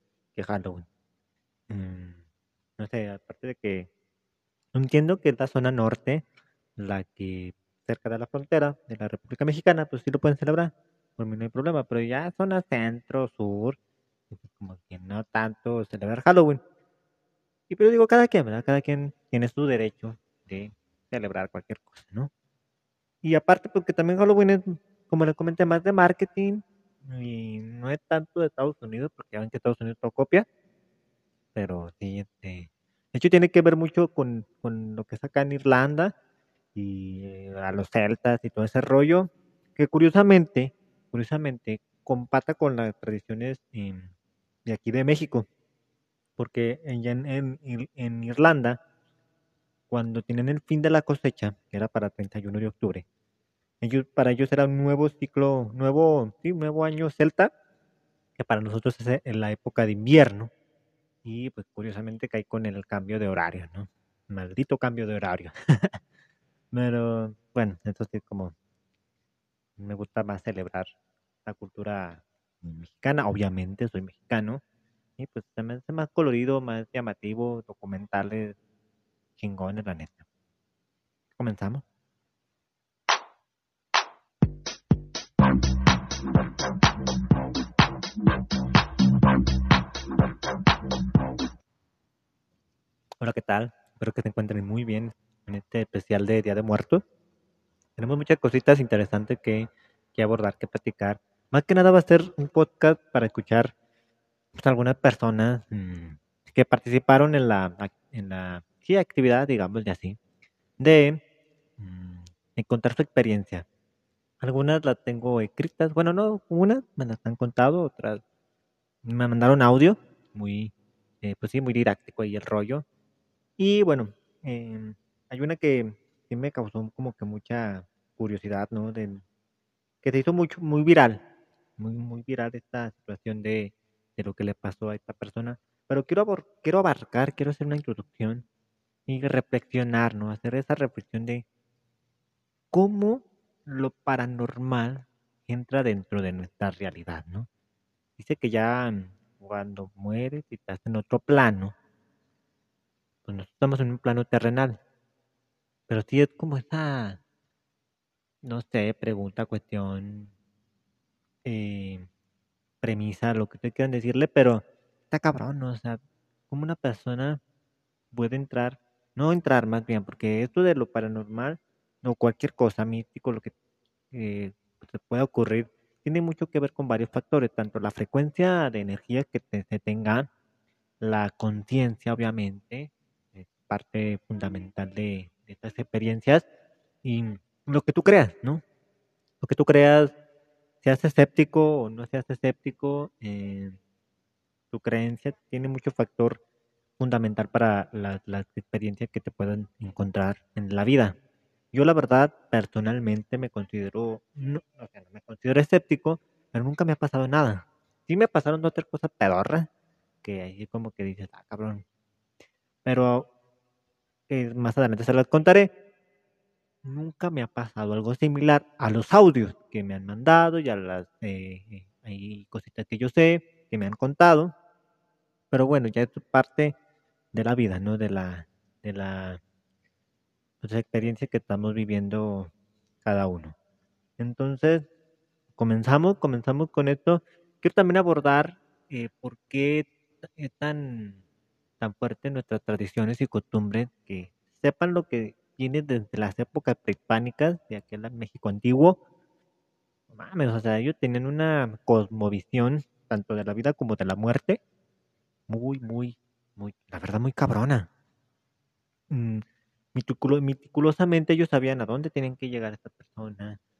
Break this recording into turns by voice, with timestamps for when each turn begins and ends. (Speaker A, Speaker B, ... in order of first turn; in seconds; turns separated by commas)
Speaker A: 0.3-0.8, Speaker A: 1.7-2.2, Speaker A: 2.8-3.9, Speaker A: 4.7-6.2, Speaker A: 6.8-13.8, Speaker A: 14.3-16.6, Speaker A: 17.7-22.3, Speaker A: 23.2-30.4, Speaker A: 31.5-36.1, Speaker A: 36.7-44.1, Speaker A: 44.6-45.5, Speaker A: 46.4-48.8, Speaker A: 49.9-53.0, Speaker A: 53.8-57.5, Speaker A: 58.4-60.5, Speaker A: 61.2-66.0, Speaker A: 66.7-68.5, Speaker A: 69.8-70.9, Speaker A: 71.5-74.6, Speaker A: 75.2-78.5, Speaker A: 79.4-80.2, Speaker A: 81.4-81.8, Speaker A: 93.2-97.0, Speaker A: 98.0-103.7, Speaker A: 104.5-110.2, Speaker A: 110.8-111.2, Speaker A: 111.8-113.6, Speaker A: 114.4-118.2, Speaker A: 119.0-122.8, Speaker A: 123.6-129.2, Speaker A: 130.0-131.2, Speaker A: 131.8-138.4, Speaker A: 139.1-141.4, Speaker A: 142.7-147.5, Speaker A: 148.2-151.7, Speaker A: 153.3-154.8, Speaker A: 155.9-157.2, Speaker A: 158.4-160.3, Speaker A: 161.4-162.1, Speaker A: 162.8-167.4, Speaker A: 168.1-173.5, Speaker A: 174.1-180.3, Speaker A: 181.0-186.4, Speaker A: 187.0-188.6, Speaker A: 189.4-190.1, Speaker A: 190.8-193.8, Speaker A: 194.7-196.4, Speaker A: 197.0-201.2, Speaker A: 201.7-209.7, Speaker A: 210.2-211.8, Speaker A: 212.8-213.3, Speaker A: 214.3-215.7, Speaker A: 216.8-224.5, Speaker A: 225.5-226.7, Speaker A: 227.3-229.4, Speaker A: 230.6-232.5, Speaker A: 233.0-233.5, Speaker A: 234.2-234.9, Speaker A: 235.6-241.2, Speaker A: 241.8-249.0, Speaker A: 250.1-254.6, Speaker A: 255.5-257.9, Speaker A: 259.1-259.4, Speaker A: 259.9-263.6